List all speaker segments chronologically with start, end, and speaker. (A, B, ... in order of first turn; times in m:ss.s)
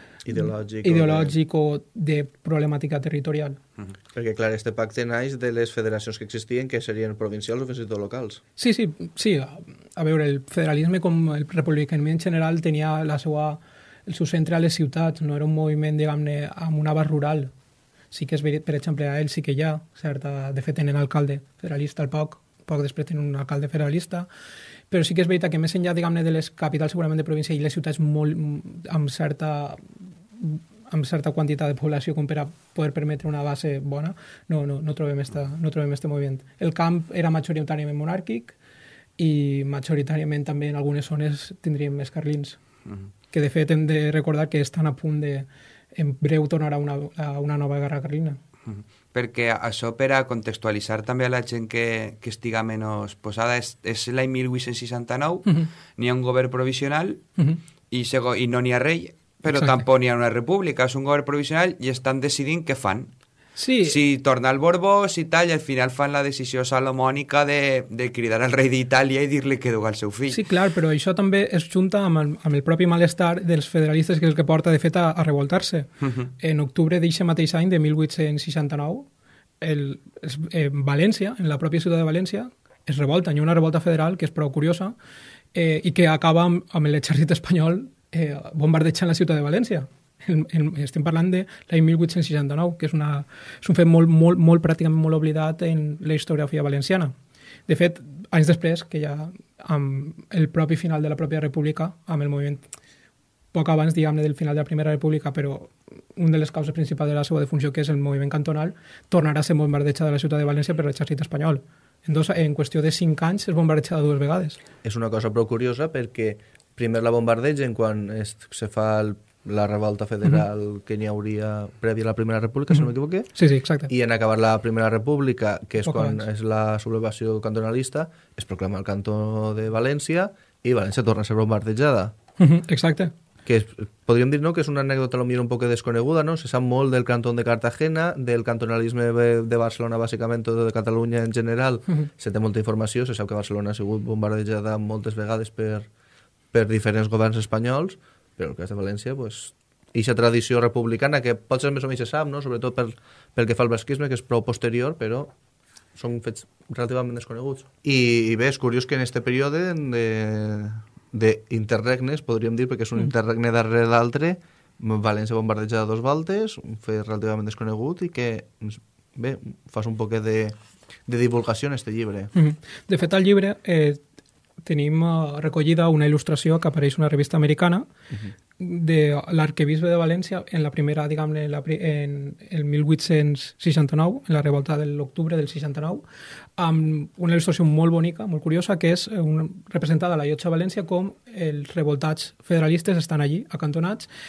0:00.2-0:01.4 A
0:00.4-0:03.6 B
0:04.1-0:08.4 A
0:08.6-0:17.5 B
0:18.1-0:24.3 B
0:24.9-0:29.8 B
0:30.4-0:38.6 B
0:39.2-0:42.6 B
0:43.3-0:48.4 B
0:48.7-0:57.2 C
0:57.9-1:03.1 C
0:59.6-0:59.8 B
1:03.6-1:04.0 B
1:03.8-1:10.4 C
1:10.3-1:19.1 B
1:16.0-1:16.3 C
1:19.6-1:25.0 B
1:25.5-1:37.1 B
1:37.7-1:42.6 B
1:43.5-1:54.6 B
1:54.8-2:03.3 A
2:03.4-2:03.9 B
2:03.9-2:12.1 A
2:05.8-2:06.2 B
2:12.4-2:13.1 B
2:13.5-2:25.9 A
2:26.5-2:35.3 A
2:36.0-2:52.3 A
2:52.4-2:54.0 B
2:54.6-2:57.9 B
2:58.6-3:06.0 B
3:06.6-3:14.1 B